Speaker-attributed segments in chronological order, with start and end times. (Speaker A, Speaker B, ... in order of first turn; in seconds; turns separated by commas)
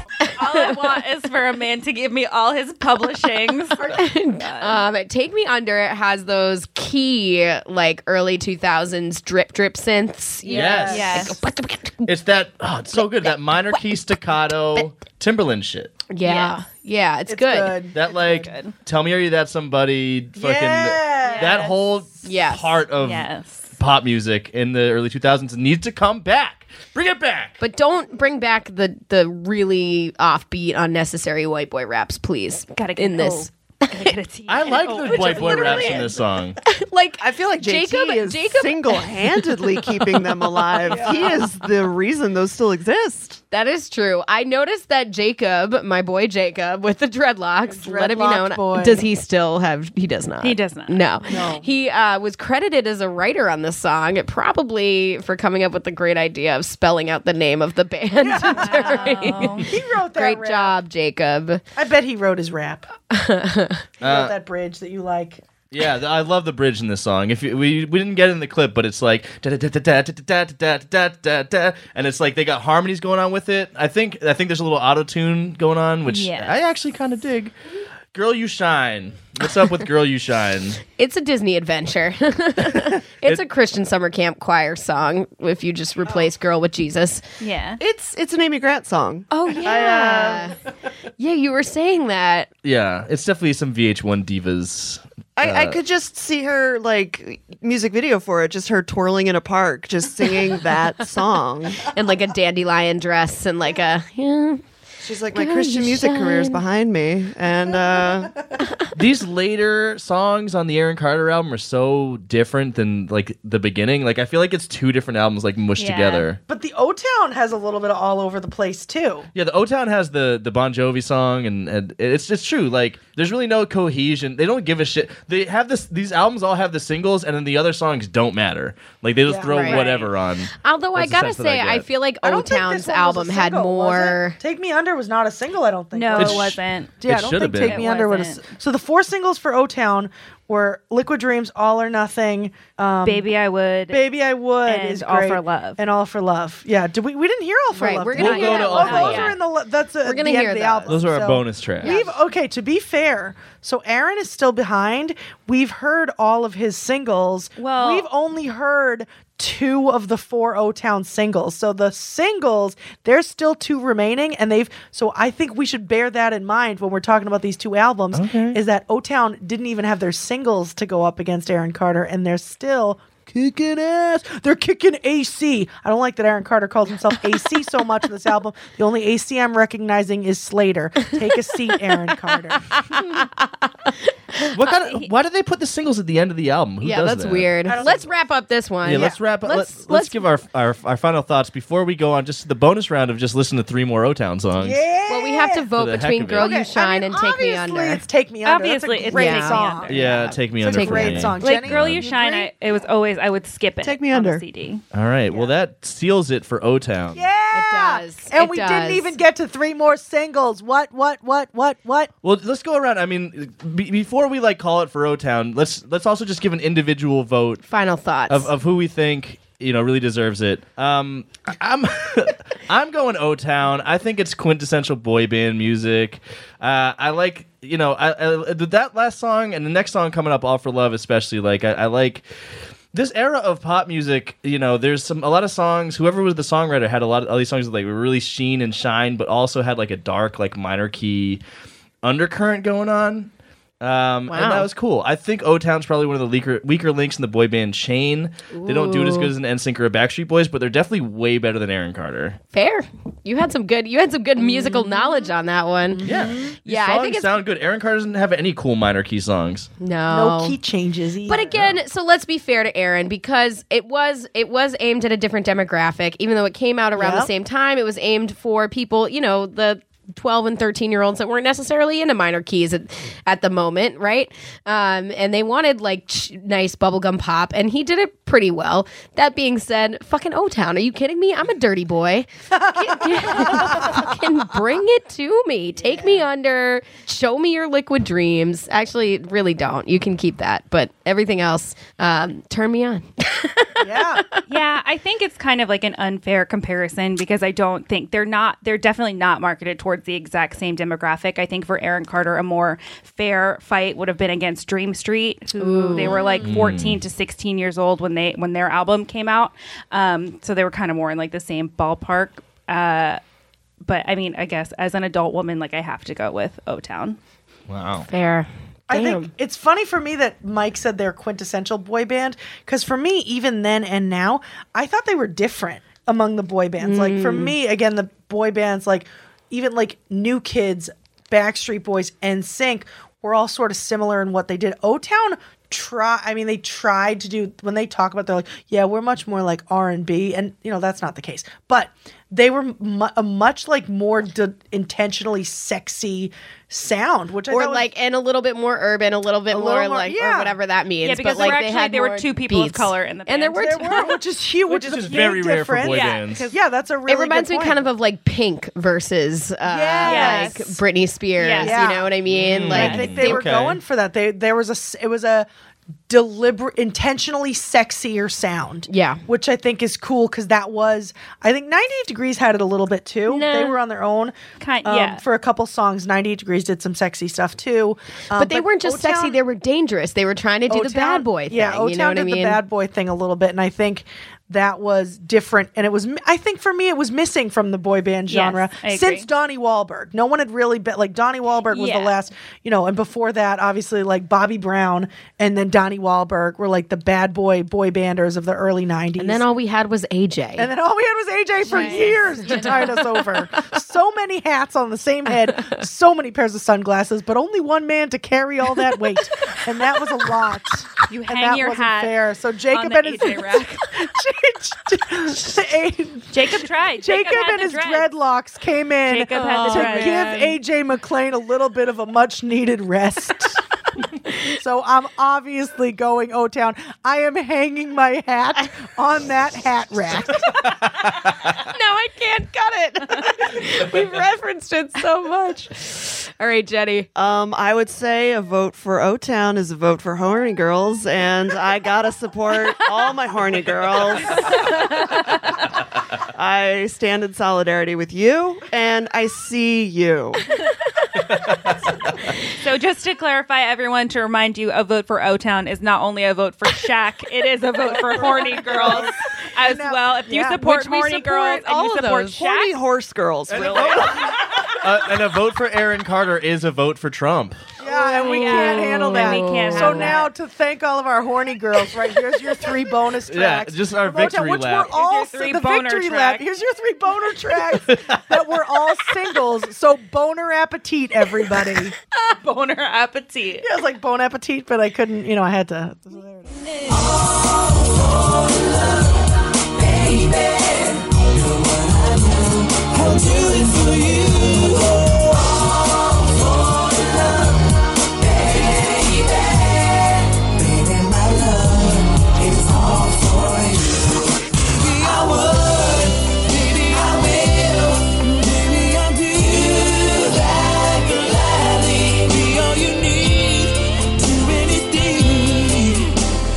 Speaker A: 0.3-4.8, Speaker B: 3.9-12.1, Speaker C: 10.4-11.2, Speaker D: 10.5-11.2, Speaker A: 10.9-11.4, Speaker D: 12.1-15.9, Speaker B: 12.9-14.0, Speaker B: 16.1-17.8, Speaker A: 16.2-16.6, Speaker C: 17.3-18.5, Speaker D: 17.9-27.5, Speaker A: 18.1-18.7, Speaker C: 20.4-21.7, Speaker A: 21.2-21.8, Speaker B: 22.2-22.8, Speaker A: 23.0-23.7, Speaker B: 27.6-34.1, Speaker A: 32.7-36.1, Speaker D: 34.5-36.6, Speaker C: 34.9-36.1, Speaker B: 36.6-39.7, Speaker E: 37.2-43.4, Speaker B: 40.9-41.1, Speaker C: 40.9-41.4, Speaker B: 43.5-61.6, Speaker C: 47.7-49.1, Speaker A: 50.4-51.0, Speaker C: 51.2-51.7, Speaker C: 58.2-60.8, Speaker A: 58.4-59.7, Speaker C: 61.8-62.9, Speaker B: 63.1-63.8, Speaker C: 64.0-65.4, Speaker D: 64.0-64.3, Speaker D: 65.7-77.5, Speaker A: 76.1-76.6, Speaker D: 78.1-80.8, Speaker B: 81.0-87.2, Speaker A: 87.4-87.8, Speaker E: 87.8-90.4, Speaker B: 89.3-90.5, Speaker A: 89.4-90.2, Speaker B: 91.2-92.5, Speaker D: 92.6-95.8, Speaker E: 95.4-101.9, Speaker B: 101.9-104.6, Speaker E: 105.0-108.3, Speaker B: 105.3-106.6, Speaker D: 108.9-116.4, Speaker A: 115.8-116.2, Speaker C: 116.5-119.3, Speaker D: 119.3-131.8, Speaker C: 129.3-129.7, Speaker B: 129.5-129.8, Speaker A: 129.6-130.1, Speaker B: 130.6-134.4, Speaker C: 132.2-143.3, Speaker A: 135.9-136.9, Speaker D: 136.1-137.8, Speaker A: 137.6-138.4, Speaker A: 143.0-144.0, Speaker C: 143.9-182.7, Speaker A: 144.6-145.8, Speaker B: 147.7-149.3, Speaker D: 148.1-149.3, Speaker A: 148.8-149.4, Speaker B: 150.0-151.0, Speaker D: 150.9-152.0, Speaker B: 151.8-152.1, Speaker A: 157.6-158.1, Speaker D: 168.1-168.6, Speaker B: 182.9-183.9, Speaker D: 184.4-187.5, Speaker B: 186.8-190.2, Speaker C: 187.6-188.1, Speaker D: 188.8-194.8, Speaker C: 194.6-195.7, Speaker B: 195.1-198.0, Speaker D: 195.8-196.5, Speaker C: 196.3-199.9, Speaker A: 198.4-200.1, Speaker B: 199.1-201.3, Speaker D: 199.9-202.0, Speaker C: 200.6-202.5, Speaker A: 201.4-204.8, Speaker E: 203.8-204.4, Speaker D: 204.9-207.3, Speaker C: 207.1-212.1, Speaker B: 207.5-209.2, Speaker D: 212.2-217.6, Speaker B: 217.7-218.5, Speaker D: 218.3-232.2, Speaker D: 232.9-241.4, Speaker D: 242.0-252.4, Speaker B: 244.3-244.7, Speaker B: 248.5-249.3, Speaker B: 252.5-257.4, Speaker C: 255.9-256.6, Speaker D: 256.0-259.7, Speaker B: 259.8-260.6, Speaker C: 260.1-261.5, Speaker B: 261.2-294.4, Speaker D: 261.5-261.8, Speaker C: 267.0-267.3, Speaker C: 282.5-284.1, Speaker C: 293.8-294.2, Speaker A: 294.5-313.2, Speaker B: 305.6-306.6, Speaker D: 306.4-307.0, Speaker A: 313.8-317.2, Speaker D: 317.7-318.1, Speaker B: 318.1-319.3, Speaker C: 318.9-347.9, Speaker B: 326.8-327.6, Speaker B: 347.5-354.2, Speaker C: 349.5-350.6, Speaker A: 351.0-354.0, Speaker C: 353.6-357.8, Speaker D: 354.6-356.4, Speaker A: 355.9-356.6, Speaker B: 357.1-363.5, Speaker C: 359.6-360.6, Speaker A: 360.0-360.8, Speaker A: 361.4-361.8, Speaker C: 361.6-365.5, Speaker D: 362.3-363.8, Speaker C: 366.1-379.4, Speaker B: 368.9-369.2, Speaker B: 373.2-373.8, Speaker A: 374.6-375.2, Speaker B: 378.4-382.6, Speaker C: 380.7-399.4, Speaker A: 388.3-389.3, Speaker A: 391.7-392.2, Speaker B: 399.2-400.7, Speaker C: 400.6-423.6, Speaker A: 401.6-403.0, Speaker B: 401.7-403.7, Speaker B: 405.3-405.7, Speaker A: 411.1-412.2, Speaker A: 412.7-413.9, Speaker A: 416.3-418.1, Speaker A: 419.1-420.5, Speaker B: 419.4-420.3, Speaker C: 424.5-430.7, Speaker B: 431.5-437.1, Speaker E: 437.1-444.7, Speaker E: 446.3-450.4, Speaker A: 452.5-462.7, Speaker C: 457.9-460.6, Speaker B: 460.6-462.4, Speaker E: 462.3-464.3, Speaker D: 463.5-467.6, Speaker C: 467.8-481.9, Speaker B: 467.8-470.2, Speaker A: 468.2-470.3, Speaker D: 473.3-474.9, Speaker A: 474.9-476.4, Speaker D: 477.9-478.2, Speaker A: 482.2-483.7, Speaker C: 483.6-486.6, Speaker F: 486.9-516.2